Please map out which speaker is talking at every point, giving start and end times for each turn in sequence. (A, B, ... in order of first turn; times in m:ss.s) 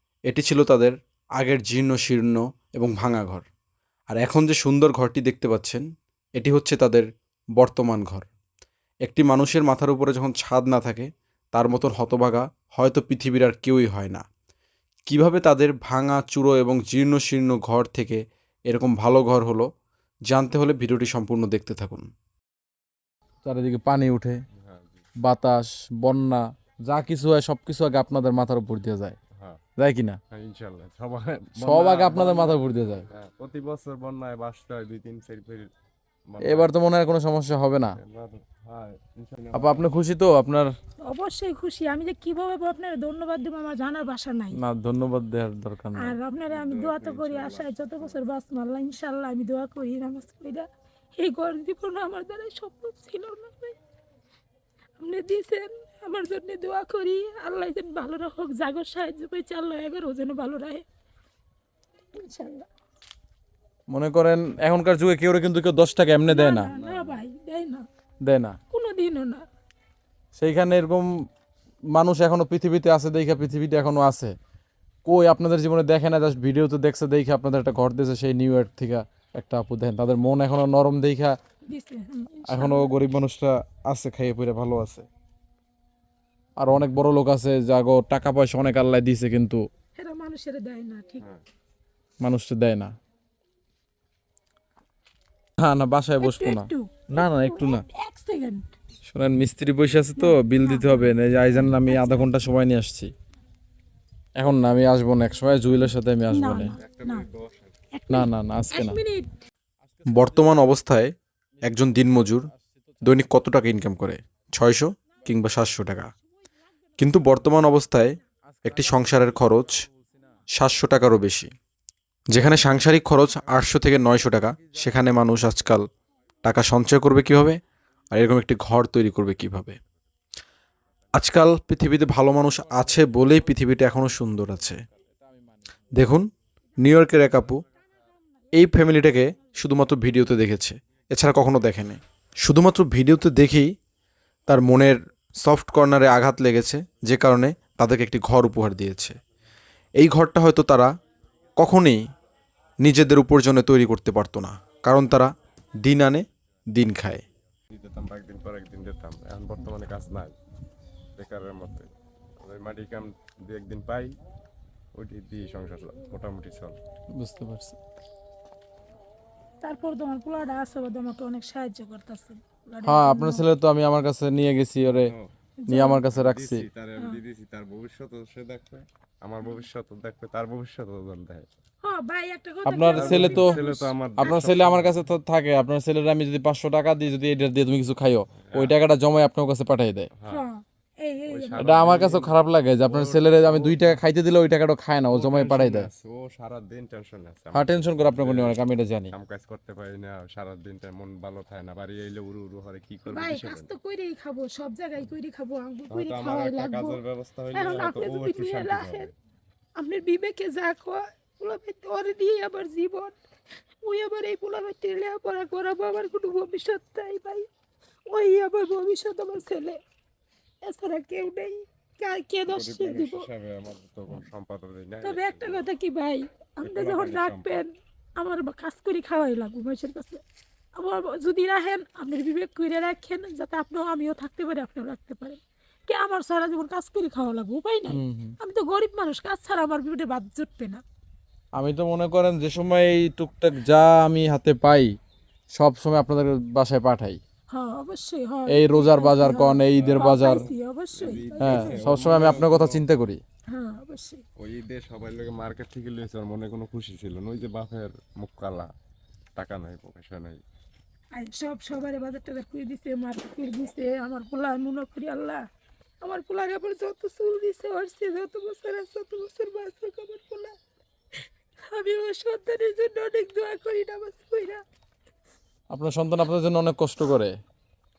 0:00.3-0:03.4 A
0:04.1-0:05.8 A
0:06.4-0:07.1 A
0:07.6-0:08.3 A
0:09.0-0:14.2 A
0:15.1-0:19.7 A
0:20.3-0:22.1 A
0:23.4-0:24.4 B
0:24.6-0:25.0 C
0:25.2-0:29.2 B
0:29.4-0:29.6 C
0:29.8-0:30.2 B
0:30.3-0:35.7 C
0:31.6-0:33.1 B
0:36.3-0:36.7 C
0:36.4-0:38.0 B
0:38.0-0:39.9 C
0:39.5-0:40.7 B
0:41.0-0:44.6 D
0:44.5-0:46.2 B
0:46.0-0:53.8 D
0:46.5-0:48.2 C
0:55.0-1:00.8 D
1:02.2-1:02.7 D
1:03.9-1:06.7 B
1:06.3-1:07.9 D
1:06.7-1:07.2 C
1:08.2-1:08.6 B
1:08.7-1:09.5 D
1:10.4-1:11.1 B
1:11.9-1:14.4 B
1:15.0-1:21.4 B
1:21.7-1:23.0 D
1:22.5-1:25.1 B
1:26.6-1:29.6 B
1:30.0-1:31.3 D
1:32.2-1:32.9 B
1:35.6-1:37.8 B
1:36.2-1:38.7 D
1:39.1-1:43.1 B
1:40.2-1:42.3 D
1:44.4-1:46.8 B
1:46.3-1:47.3 D
1:46.7-1:47.8 C
1:47.9-1:49.4 D
1:48.1-1:49.0 B
1:49.9-1:50.8 B
1:50.2-1:51.1 A
1:51.6-1:53.2 B
1:51.6-1:52.5 A
1:53.0-1:56.1 A
1:57.0-1:59.8 A
1:58.5-2:00.4 B
2:00.5-2:01.5 A
2:02.3-2:05.8 A
2:03.4-2:03.8 B
2:04.4-2:05.7 B
2:06.4-2:07.6 A
2:08.1-2:09.8 A
2:11.1-2:14.8 A
2:12.4-2:15.6 B
2:16.0-2:16.3 A
2:16.8-2:17.6 A
2:18.5-2:23.7 A
2:24.5-2:29.2 A
2:30.0-2:30.9 A
2:31.6-2:32.0 A
2:32.8-2:35.3 A
2:35.8-2:37.2 A
2:37.7-2:40.4 C
2:41.2-2:41.9 C
2:42.4-2:44.2 C
2:45.0-2:46.8 C
2:47.2-2:47.8 B
2:49.6-2:53.4 D
2:52.8-2:55.1 B
2:55.6-2:56.1 D
2:55.7-2:56.6 B
2:56.0-3:01.5 C
3:01.8-3:04.5 D
3:02.7-3:03.6 B
3:02.9-3:05.1 C
3:04.2-3:10.1 B
3:08.4-3:08.8 C
3:10.1-3:10.4 C
3:10.3-3:11.7 D
3:11.3-3:14.0 C
3:11.6-3:15.9 B
3:15.1-3:18.6 C
3:17.5-3:19.1 B
3:19.1-3:23.7 C
3:23.1-3:27.0 D
3:25.9-3:29.1 C
3:27.5-3:29.1 D
3:29.8-3:33.2 D
3:33.8-3:37.5 D
3:38.1-3:39.8 D
3:40.6-3:43.3 D
3:42.5-3:45.7 C
3:45.0-3:50.2 D
3:46.6-3:47.6 C
3:50.8-4:00.8 D
3:57.9-3:58.4 B
4:01.6-4:05.0 B
4:05.5-4:07.2 B
4:07.5-4:12.0 D
4:08.5-4:10.5 B
4:09.7-4:12.8 C
4:11.4-4:13.2 B
4:13.5-4:14.2 D
4:14.4-4:18.7 C
4:19.4-4:20.4 C
4:21.1-4:25.4 D
4:26.0-4:30.6 D
4:31.7-4:34.6 D
4:35.7-4:37.3 B